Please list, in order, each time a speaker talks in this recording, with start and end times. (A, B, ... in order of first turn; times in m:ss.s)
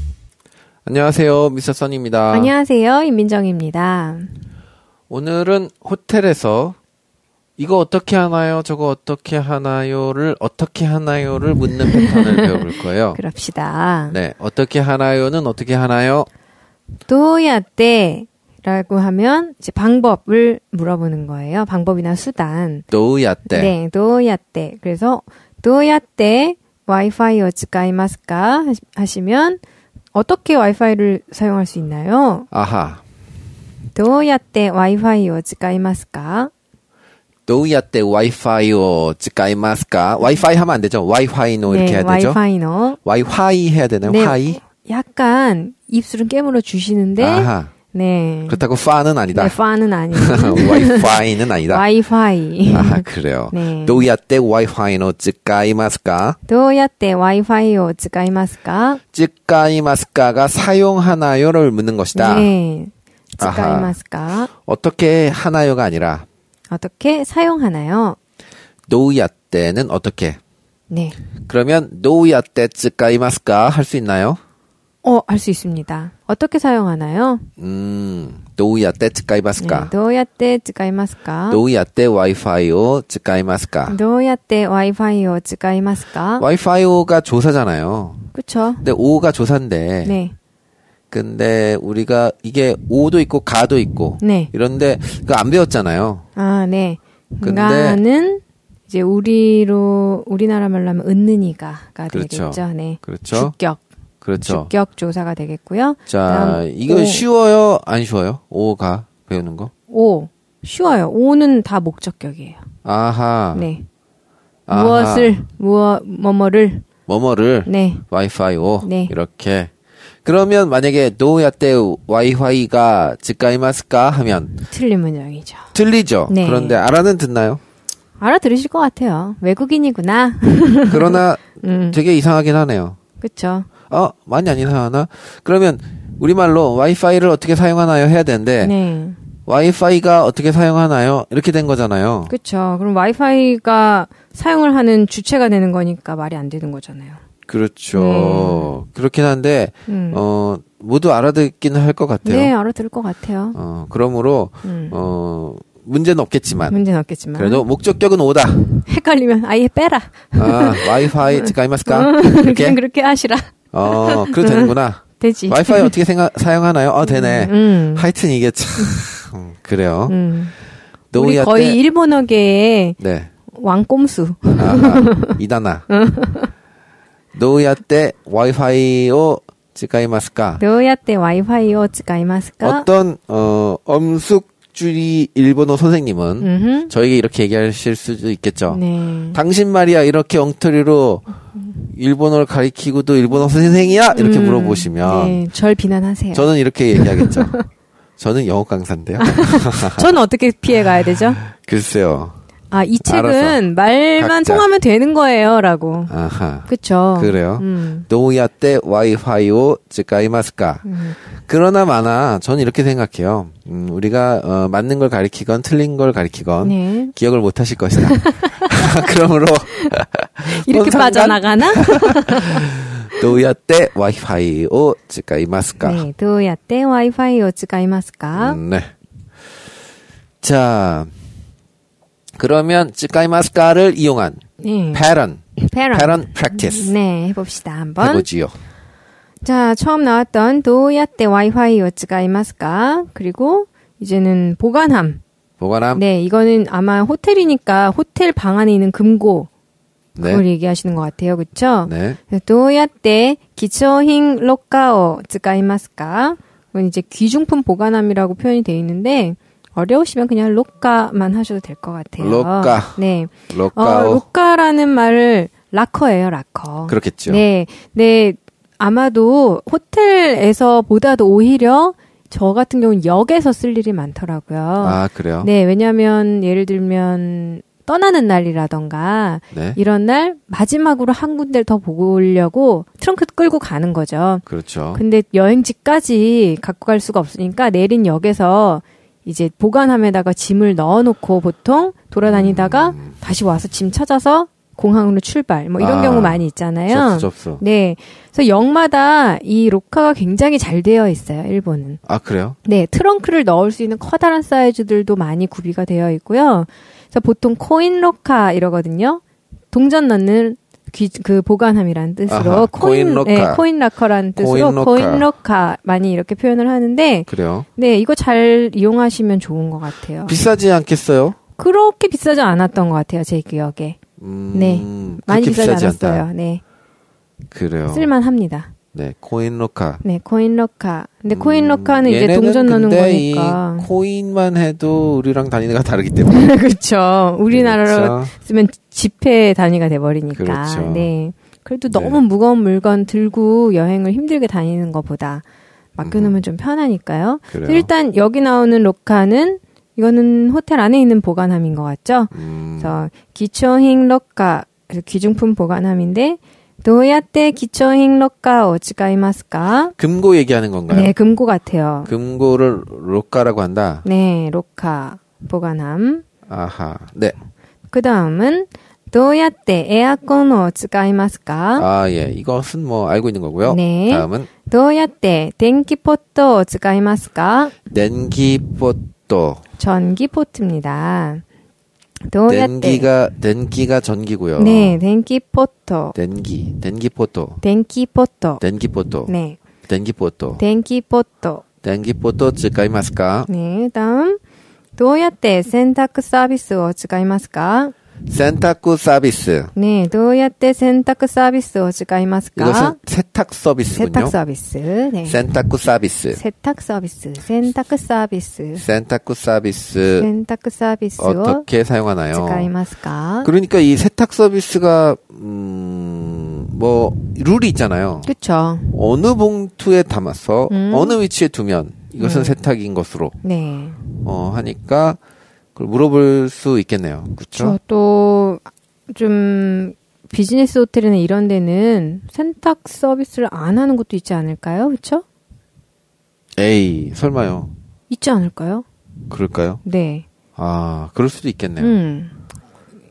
0:00.8-0:02.5 A
0:02.3-0:04.4 B
0:05.1-0:06.8 A
0:07.6-0:13.2 A
0:11.9-0:12.6 B
0:13.1-0:14.2 B
0:14.1-0:16.3 A
0:17.1-0:22.8 B
0:22.9-0:23.7 A
0:23.5-0:29.6 B
0:30.1-0:32.5 B
0:32.5-0:33.0 A
0:33.9-0:36.5 B
0:37.5-0:42.4 A
0:41.6-0:43.0 B
0:43.0-0:44.6 A
0:44.0-0:48.6 B
0:47.2-0:47.7 A
0:48.5-0:49.6 A
0:49.3-0:54.0 B
0:50.1-0:51.8 A
0:52.7-0:56.4 A
0:56.5-0:59.0 B
0:59.1-1:02.5 A
1:02.1-1:04.5 B
1:03.4-1:03.9 A
1:04.6-1:06.2 A
1:06.7-1:08.2 B
1:08.9-1:10.4 A
1:10.9-1:11.2 B
1:11.4-1:14.4 A
1:15.0-1:17.5 B
1:17.6-1:19.9 A
1:19.6-1:21.6 B
1:21.5-1:24.0 A
1:23.9-1:26.4 B
1:26.4-1:28.2 A
1:28.3-1:28.8 B
1:28.8-1:30.2 A
1:30.0-1:30.4 B
1:31.1-1:36.2 A
1:34.2-1:34.5 B
1:36.4-1:43.8 B
1:37.4-1:38.0 A
1:42.1-1:43.5 A
1:44.2-1:44.7 A
1:44.4-1:47.2 B
1:46.1-1:49.7 A
1:49.9-1:52.6 B
1:52.8-1:53.7 A
1:53.5-1:53.9 B
1:54.7-1:55.4 A
1:54.7-1:56.8 B
1:57.1-1:59.7 A
1:57.6-1:58.0 B
1:58.8-1:59.1 B
2:00.2-2:04.6 A
2:04.7-2:05.7 B
2:05.7-2:07.6 A
2:06.3-2:06.8 B
2:08.2-2:12.0 B
2:10.9-2:13.0 A
2:13.2-2:13.7 B
2:13.9-2:18.7 A
2:18.6-2:19.2 B
2:19.5-2:22.3 A
2:22.3-2:27.2 B
2:27.5-2:32.5 A
2:27.9-2:28.7 B
2:29.9-2:30.2 B
2:32.2-2:33.6 B
2:33.5-2:36.8 A
2:34.6-2:35.0 B
2:36.7-2:37.6 B
2:37.3-2:38.7 A
2:38.8-2:45.9 B
2:40.3-2:42.8 A
2:43.7-2:50.2 A
2:47.0-2:48.1 B
2:50.1-2:50.5 B
2:51.1-2:51.8 A
2:51.1-2:53.0 B
2:53.0-2:53.3 A
2:53.5-2:55.4 B
2:54.6-2:55.8 A
2:55.9-2:56.5 B
2:57.3-3:00.6 A
3:00.6-3:02.9 B
3:02.6-3:08.8 A
3:06.4-3:06.9 B
3:08.7-3:09.4 B
3:09.3-3:11.3 A
3:11.8-3:15.4 A
3:14.1-3:17.6 B
3:16.3-3:17.5 A
3:18.2-3:20.0 A
3:19.2-3:21.4 B
3:21.4-3:22.4 A
3:22.7-3:26.1 B
3:23.0-3:23.6 A
3:24.2-3:24.6 A
3:26.1-3:30.8 A
3:26.7-3:28.0 B
3:30.8-3:31.2 B
3:31.4-3:42.1 A
3:36.6-3:37.1 B
3:38.0-3:38.9 B
3:40.4-3:42.6 B
3:42.6-3:46.0 A
3:45.8-3:48.6 B
3:48.3-3:48.9 A
3:50.4-3:51.1 A
3:52.4-3:56.9 A
3:54.6-3:55.0 B
3:55.6-3:58.3 B
3:58.0-3:58.5 A
3:59.4-4:05.2 B
4:05.6-4:06.0 A
4:05.9-4:09.5 B
4:10.2-4:10.4 A
4:10.2-4:44.4 B
4:11.8-4:12.2 A
4:22.2-4:24.2 A
4:26.9-4:27.4 A
4:34.8-4:35.5 A
4:39.5-4:39.8 A
4:44.5-4:45.0 A
4:44.9-5:02.0 B
4:52.2-4:53.1 A
4:55.8-4:57.6 A
5:02.0-5:02.6 A
5:02.6-5:20.4 B
5:12.3-5:13.6 A
5:14.4-5:15.3 A
5:17.3-5:17.6 A
5:20.2-5:21.4 A
5:21.6-5:24.0 B
5:24.2-5:26.3 A
5:24.5-5:26.6 B
5:27.5-5:28.1 A
5:27.9-5:28.7 B
5:28.9-5:30.0 A
5:30.0-5:33.9 B
5:31.3-5:36.5 A
5:36.3-5:45.4 B
5:37.5-5:38.3 A
5:40.3-5:41.1 A
5:41.9-5:42.2 A
5:46.0-5:59.9 B
5:46.0-5:46.4 A
5:47.5-5:47.9 A
5:52.3-5:53.0 A
6:00.0-6:01.1 A
6:00.9-6:02.1 B
6:02.0-6:04.0 A
6:04.0-6:06.2 B
6:06.5-6:07.4 A
6:07.9-6:11.8 B
6:11.8-6:14.5 A
6:13.6-6:17.8 B
6:17.8-6:19.6 A
6:19.8-6:21.4 B
6:22.3-6:23.1 B
6:22.5-6:25.0 A
6:24.6-6:26.2 B
6:26.1-6:27.6 A
6:27.6-6:28.6 B
6:28.6-6:29.3 A
6:29.3-6:29.6 B
6:29.9-6:30.6 A
6:30.6-6:31.6 B
6:31.8-6:33.5 A
6:33.5-6:34.4 B
6:35.0-6:37.9 B
6:38.3-6:39.7 A
6:39.7-6:43.0 B
6:42.6-6:44.3 A
6:43.9-6:45.4 B
6:45.2-6:46.4 A
6:46.3-6:48.8 B
6:48.8-6:50.3 A
6:50.2-6:51.6 B
6:51.2-6:52.7 A
6:52.3-6:53.5 B
6:53.4-6:58.3 A
6:58.2-6:59.0 B
6:58.9-7:03.4 A
7:00.7-7:01.2 B
7:02.2-7:02.6 B
7:03.4-7:04.0 B
7:04.2-7:05.2 A
7:05.8-7:07.8 A
7:07.5-7:15.2 B
7:16.6-7:17.7 A
7:18.1-7:18.8 B
7:19.3-7:19.8 A
7:19.8-7:20.3 B
7:20.6-7:22.0 A
7:21.8-7:22.4 B